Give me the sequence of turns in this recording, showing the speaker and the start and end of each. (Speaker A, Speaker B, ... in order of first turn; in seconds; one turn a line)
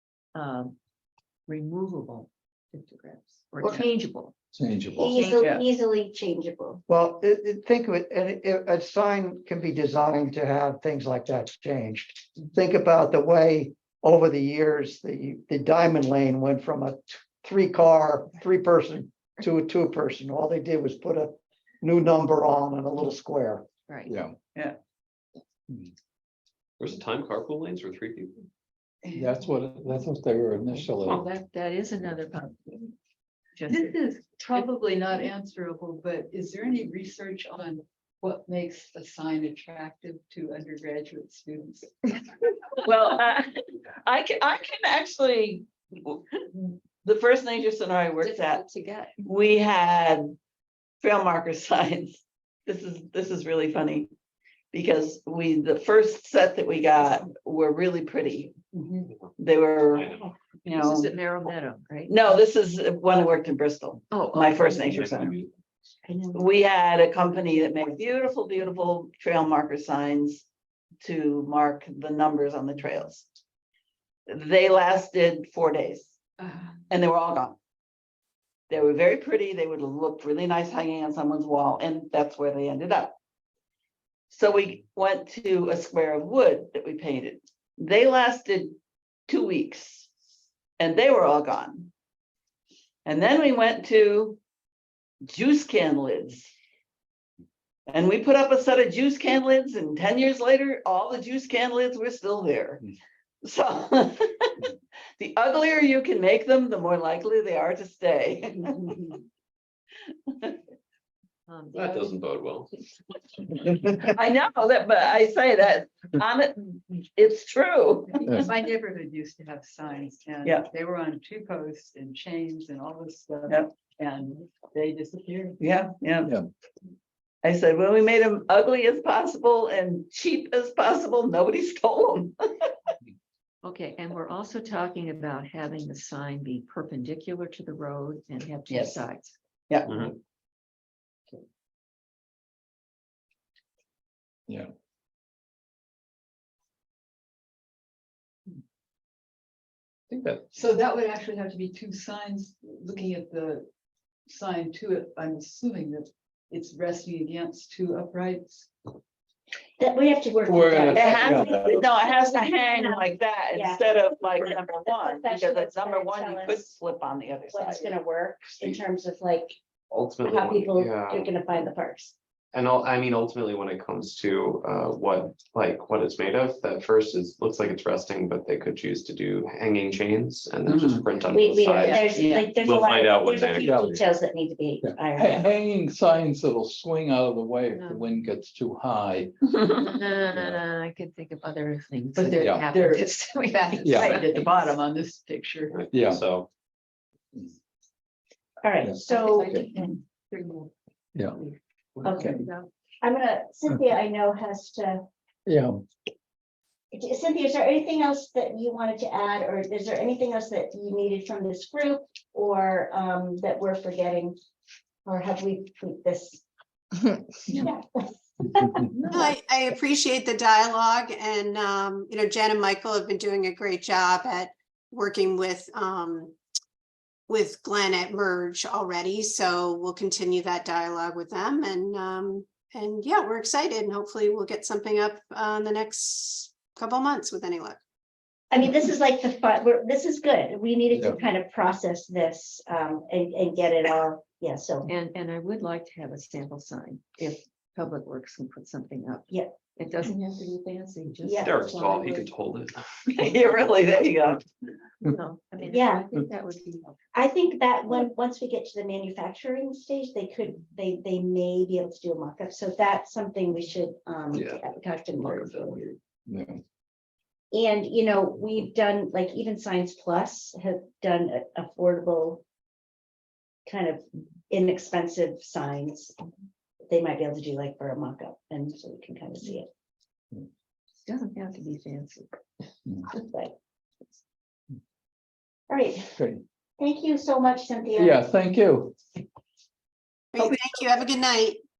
Speaker A: 0.3-0.8
Speaker A: 1.5-4.3
Speaker B: 4.5-5.2
Speaker C: 4.9-6.8
Speaker A: 5.1-5.4
Speaker D: 6.9-23.6
Speaker B: 24.1-24.4
Speaker E: 26.8-28.4
Speaker F: 29.0-29.5
Speaker B: 29.1-31.2
Speaker A: 31.1-32.9
Speaker A: 33.5-33.9
Speaker F: 33.7-42.0
Speaker G: 42.8-48.6
Speaker A: 48.2-49.2
Speaker G: 49.2-50.4
Speaker G: 51.0-54.1
Speaker G: 54.7-58.5
Speaker F: 58.7-59.1
Speaker G: 59.4-60.1
Speaker E: 59.9-60.3
Speaker G: 60.6-61.1
Speaker A: 60.7-62.2
Speaker G: 62.1-65.4
Speaker A: 64.1-65.0
Speaker E: 65.2-65.5
Speaker G: 66.3-70.4
Speaker G: 71.0-73.2
Speaker G: 74.3-76.2
Speaker F: 76.4-76.8
Speaker G: 76.9-77.6
Speaker G: 78.7-83.1
Speaker G: 84.3-88.8
Speaker G: 89.3-90.1
Speaker G: 90.8-91.9
Speaker G: 93.0-94.4
Speaker G: 95.2-96.5
Speaker G: 97.9-102.9
Speaker G: 103.4-109.2
Speaker A: 111.5-112.2
Speaker E: 111.7-112.7
Speaker G: 114.0-118.2
Speaker F: 118.1-125.6
Speaker G: 125.6-126.3
Speaker G: 127.4-132.7
Speaker A: 133.6-139.3
Speaker G: 138.7-139.1
Speaker E: 139.9-140.1
Speaker E: 150.1-150.4
Speaker F: 150.5-153.7
Speaker F: 154.3-158.7
Speaker C: 159.8-166.8
Speaker B: 160.5-161.8
Speaker G: 160.9-167.9
Speaker C: 167.5-169.6
Speaker E: 169.9-171.3
Speaker C: 170.2-172.1
Speaker E: 172.5-184.0
Speaker G: 180.7-181.1
Speaker C: 181.3-185.5
Speaker G: 181.8-182.5
Speaker B: 183.6-184.0
Speaker B: 184.8-189.3
Speaker A: 187.7-188.1
Speaker A: 189.6-194.5
Speaker B: 190.3-190.6
Speaker F: 192.1-195.8
Speaker B: 192.4-192.7
Speaker B: 193.8-194.2
Speaker E: 195.7-196.5
Speaker B: 195.9-196.2
Speaker C: 198.6-199.6
Speaker B: 198.8-199.6
Speaker F: 199.1-200.7
Speaker A: 200.3-200.7
Speaker A: 201.3-201.6
Speaker C: 202.0-202.4
Speaker B: 202.1-202.4
Speaker A: 202.1-202.7
Speaker C: 203.0-205.0
Speaker B: 205.4-205.8
Speaker C: 206.9-214.3
Speaker C: 215.1-216.4
Speaker C: 217.5-217.8
Speaker C: 218.4-218.8
Speaker A: 218.9-219.3
Speaker H: 219.1-226.3
Speaker H: 227.3-237.8
Speaker C: 238.5-244.9
Speaker A: 244.8-252.3
Speaker C: 251.2-251.7
Speaker E: 251.4-252.8
Speaker G: 253.1-254.4
Speaker A: 255.0-256.9
Speaker C: 255.6-256.1
Speaker C: 257.1-265.9
Speaker E: 265.3-265.8
Speaker B: 266.3-266.6
Speaker C: 267.5-272.4
Speaker C: 273.6-276.1
Speaker C: 276.9-279.7
Speaker A: 281.0-282.4
Speaker C: 283.1-283.5
Speaker C: 285.7-286.1
Speaker B: 286.1-286.4
Speaker C: 286.8-288.2
Speaker B: 288.0-288.9
Speaker H: 290.3-291.6